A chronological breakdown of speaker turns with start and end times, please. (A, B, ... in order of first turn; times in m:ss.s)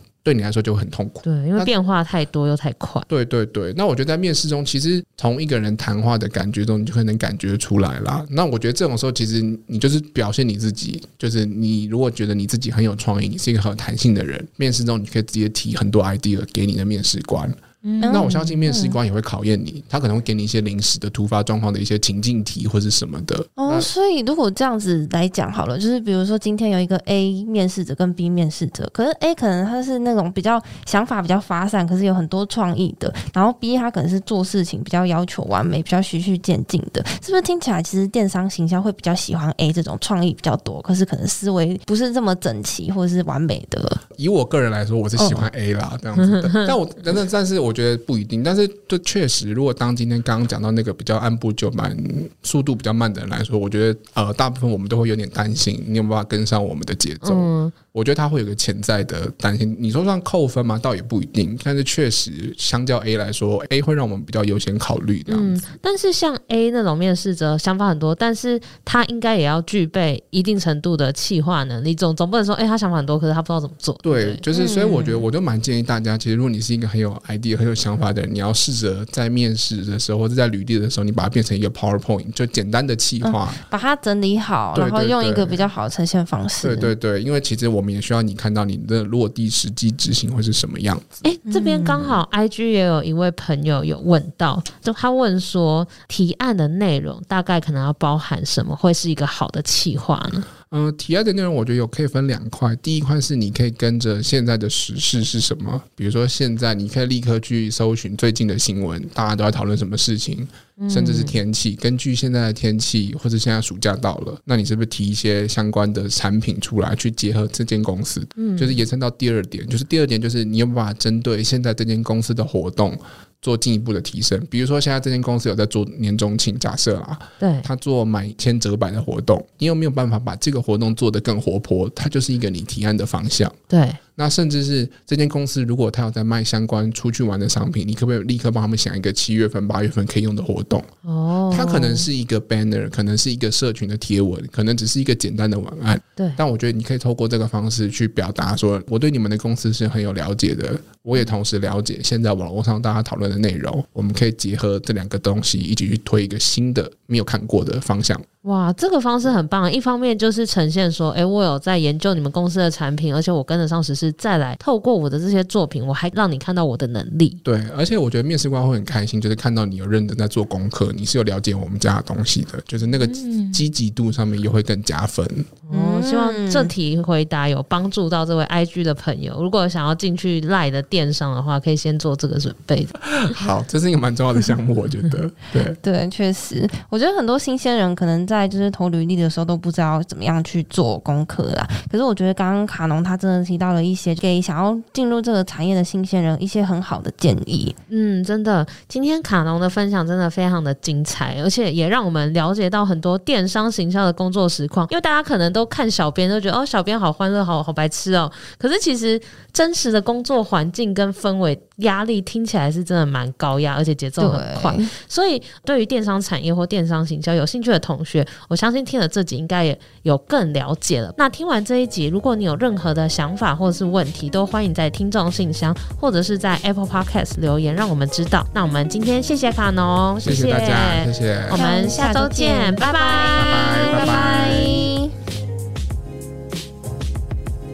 0:00.2-0:01.7 A
0:01.2-0:03.1 B
0:03.1-0:23.9 A
0:17.8-0:18.6 B
0:18.0-0:19.0 C
0:23.6-0:44.0 C
0:44.2-1:05.6 A
0:45.2-0:45.4 C
0:46.3-0:46.7 B
0:57.2-0:57.7 B
1:05.3-1:14.4 B
1:14.0-1:23.6 A
1:14.5-1:15.2 C
1:23.2-1:26.9 C
1:24.7-1:25.7 A
1:26.6-1:31.3 A
1:31.2-1:40.5 B
1:31.4-1:32.2 C
1:40.7-2:13.6 A
1:50.8-1:51.4 B
1:58.4-1:58.8 B
2:07.4-2:07.7 B
2:13.7-2:14.0 B
2:14.2-2:20.9 A
2:21.0-2:22.1 B
2:21.5-2:38.2 A
2:38.4-2:47.4 B
2:47.4-2:55.5 A
2:53.1-2:53.6 B
2:55.7-3:03.0 B
2:55.7-2:56.7 C
3:03.0-3:05.8 A
3:05.8-3:17.8 C
3:17.9-3:54.3 B
3:34.2-3:34.9 C
3:50.2-3:51.6 A
3:51.5-3:55.1 C
3:53.3-3:54.9 A